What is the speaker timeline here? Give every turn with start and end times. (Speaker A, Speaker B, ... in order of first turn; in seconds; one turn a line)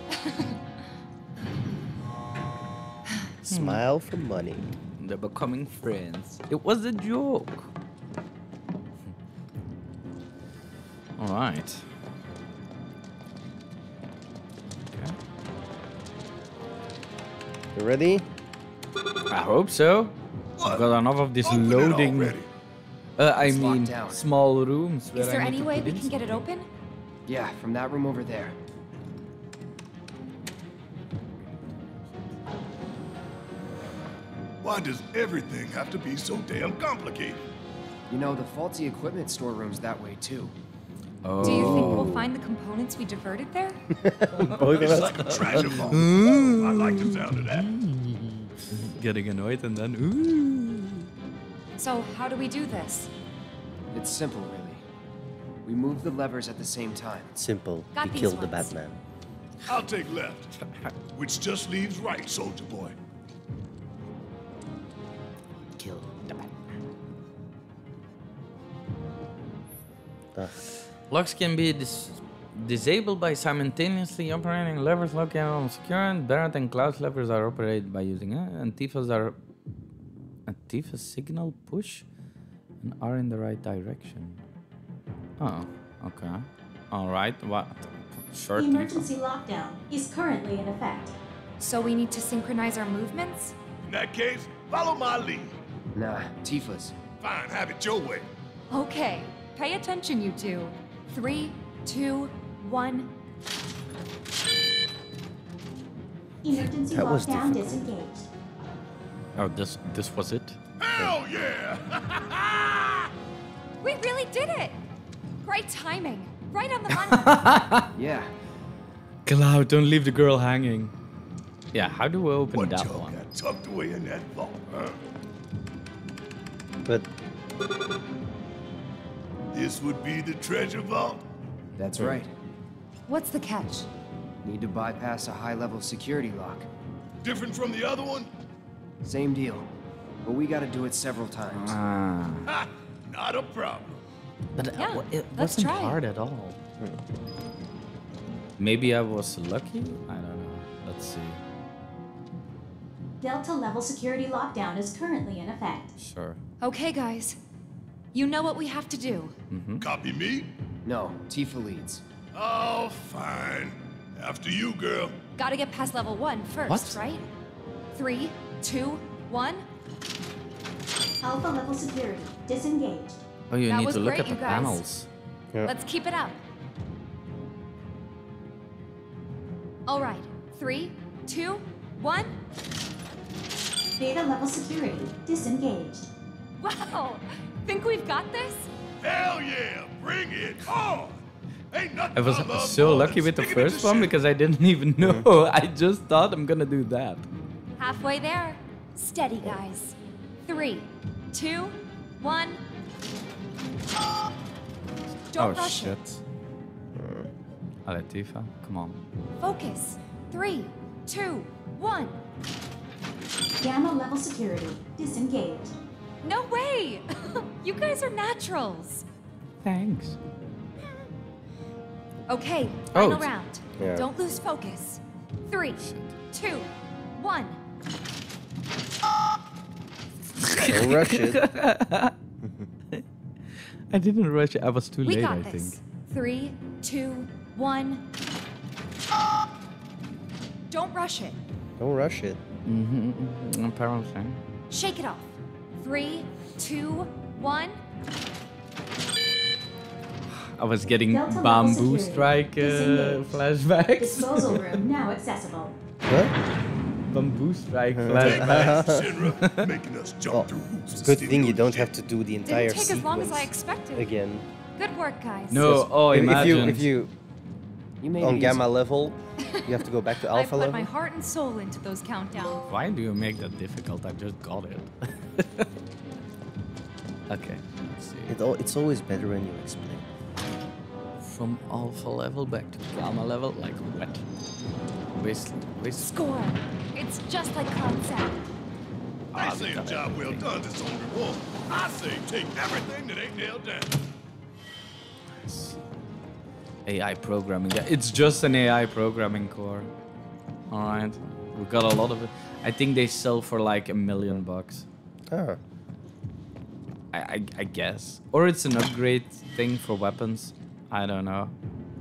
Speaker A: 0.1-0.5
Speaker B: 3.4-4.7
Speaker C: 3.5-3.8
Speaker C: 4.9-7.7
Speaker C: 11.2-11.8
Speaker C: 14.9-15.2
Speaker B: 17.7-18.2
Speaker C: 19.3-22.4
Speaker D: 20.6-20.9
Speaker D: 21.4-22.5
Speaker C: 23.2-26.4
Speaker E: 23.4-24.2
Speaker A: 25.1-26.7
Speaker E: 27.2-28.5
Speaker D: 34.6-37.4
Speaker E: 38.1-40.5
Speaker C: 41.2-42.2
Speaker B: 41.4-42.2
Speaker A: 41.4-43.8
Speaker B: 43.9-46.0
Speaker D: 44.6-47.7
Speaker C: 45.5-51.1
Speaker E: 45.7-46.0
Speaker A: 51.8-53.1
Speaker E: 53.9-54.8
Speaker E: 55.6-57.4
Speaker B: 57.4-59.0
Speaker A: 57.9-58.7
Speaker D: 59.7-60.5
Speaker D: 61.1-63.0
Speaker C: 65.8-66.5
Speaker C: 71.1-79.4
Speaker C: 80.5-82.0
Speaker C: 82.8-84.4
Speaker C: 85.4-89.1
Speaker F: 88.5-91.1
Speaker A: 91.6-93.5
Speaker D: 93.8-95.5
Speaker E: 95.9-96.9
Speaker D: 97.2-98.3
Speaker A: 98.7-103.1
Speaker F: 106.4-108.3
Speaker B: 106.8-107.8
Speaker C: 109.3-110.6
Speaker D: 110.8-113.1
Speaker A: 113.8-114.8
Speaker A: 115.4-117.4
Speaker C: 116.9-117.9
Speaker E: 117.9-118.3
Speaker C: 119.2-120.9
Speaker C: 121.7-123.2
Speaker D: 122.5-125.0
Speaker D: 129.5-131.2
Speaker C: 131.8-132.2
Speaker E: 131.9-132.3
Speaker A: 133.1-133.9
Speaker E: 134.4-136.7
Speaker D: 137.2-138.3
Speaker E: 139.0-139.7
Speaker E: 140.2-141.8
Speaker C: 141.5-142.5
Speaker D: 142.5-144.0
Speaker C: 144.5-146.6
Speaker A: 144.8-146.0
Speaker C: 148.6-151.4
Speaker F: 153.2-155.9
Speaker C: 156.0-156.4
Speaker A: 156.6-157.4
Speaker A: 158.1-159.3
Speaker C: 159.5-159.9
Speaker D: 159.8-160.5
Speaker E: 160.8-162.0
Speaker D: 162.3-165.2
Speaker A: 165.4-167.2
Speaker C: 166.7-167.0
Speaker A: 167.9-169.6
Speaker F: 171.2-173.2
Speaker C: 173.5-175.1
Speaker A: 173.7-174.8
Speaker A: 175.6-176.4
Speaker A: 179.9-182.3
Speaker F: 184.0-186.1
Speaker A: 186.6-188.7
Speaker D: 189.0-191.2
Speaker D: 191.7-194.1
Speaker C: 192.1-197.2
Speaker B: 195.0-195.3
Speaker A: 197.8-199.9
Speaker A: 200.5-202.6
Speaker A: 205.3-206.0
Speaker C: 205.3-206.2
Speaker B: 206.9-207.3
Speaker C: 207.8-209.0
Speaker A: 209.4-212.2
Speaker F: 213.6-215.7
Speaker A: 216.2-219.0
Speaker C: 219.6-220.2
Speaker A: 222.3-227.6
Speaker C: 222.9-223.3
Speaker B: 223.8-224.1
Speaker C: 225.8-226.1
Speaker C: 230.4-232.2
Speaker B: 230.6-231.4
Speaker B: 232.4-232.7
Speaker C: 233.9-235.8
Speaker A: 235.0-238.1
Speaker A: 240.7-241.4
Speaker B: 241.8-242.4
Speaker C: 242.6-244.4
Speaker A: 244.7-247.8
Speaker C: 250.3-254.8
Speaker F: 251.1-253.3
Speaker F: 254.0-255.8
Speaker B: 256.1-256.3
Speaker C: 257.1-258.8
Speaker B: 257.9-259.2
Speaker D: 258.2-261.9
Speaker B: 260.3-264.4
Speaker A: 262.4-264.1
Speaker A: 264.8-265.9
Speaker C: 265.5-266.9
Speaker B: 265.6-267.1
Speaker E: 268.0-268.6
Speaker B: 268.2-270.9
Speaker A: 270.3-272.6
Speaker C: 272.7-275.7
Speaker C: 277.3-278.4
Speaker B: 278.3-280.1
Speaker C: 281.2-284.2
Speaker C: 285.2-286.1
Speaker A: 286.0-288.4
Speaker C: 289.3-290.5
Speaker D: 289.3-294.0
Speaker C: 295.3-295.8
Speaker C: 296.9-299.9
Speaker C: 300.7-304.9
Speaker B: 305.3-305.6
Speaker C: 307.1-311.5